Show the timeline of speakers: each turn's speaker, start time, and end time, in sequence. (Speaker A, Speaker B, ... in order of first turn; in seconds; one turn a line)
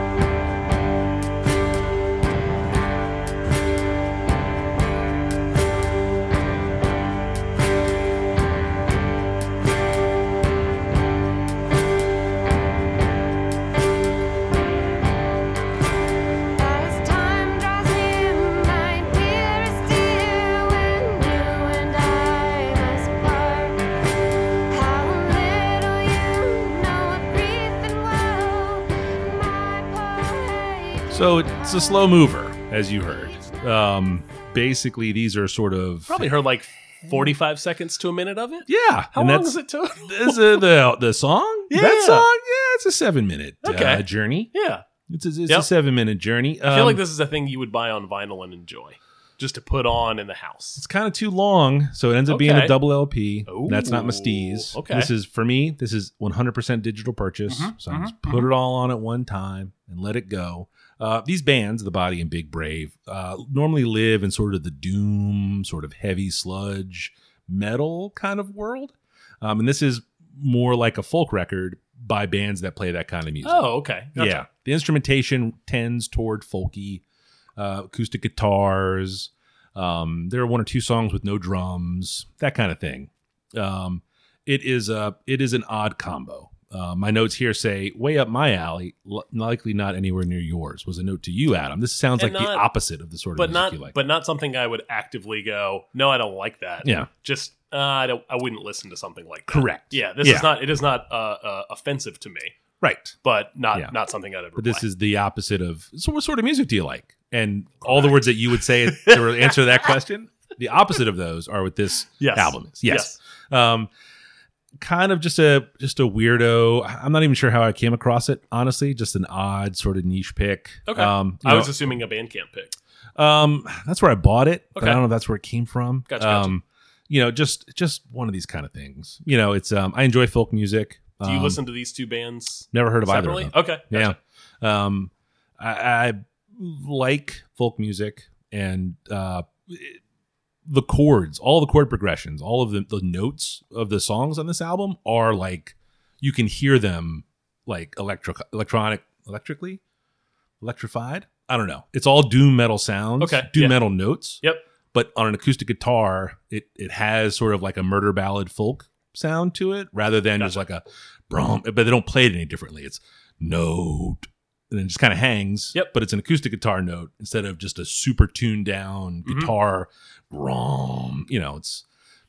Speaker A: 16.5-32.1
Speaker B: 31.1-36.3
Speaker C: 36.1-40.7
Speaker B: 38.7-44.5
Speaker C: 41.7-42.3
Speaker C: 43.6-44.9
Speaker B: 45.1-47.0
Speaker C: 46.6-50.8
Speaker B: 50.8-77.0
Speaker C: 52.3-52.8
Speaker C: 53.5-55.1
Speaker C: 57.5-58.5
Speaker C: 73.4-74.5
Speaker B: 77.6-94.0
Speaker C: 92.2-92.7
Speaker C: 93.4-102.5
Speaker B: 96.8-97.1
Speaker B: 99.5-100.5
Speaker B: 102.8-103.2
Speaker C: 103.2-104.9
Speaker B: 104.6-113.9
Speaker C: 107.8-109.6
Speaker C: 112.2-113.2
Speaker B: 114.8-121.9
Speaker C: 120.9-122.8
Speaker B: 123.2-131.6
Speaker C: 124.8-125.0
Speaker C: 126.1-126.5
Speaker C: 131.2-134.2
Speaker B: 132.7-140.0
Speaker B: 140.7-149.8
Speaker B: 150.6-154.4
Speaker C: 153.2-153.9
Speaker B: 154.9-171.8
Speaker C: 169.2-169.5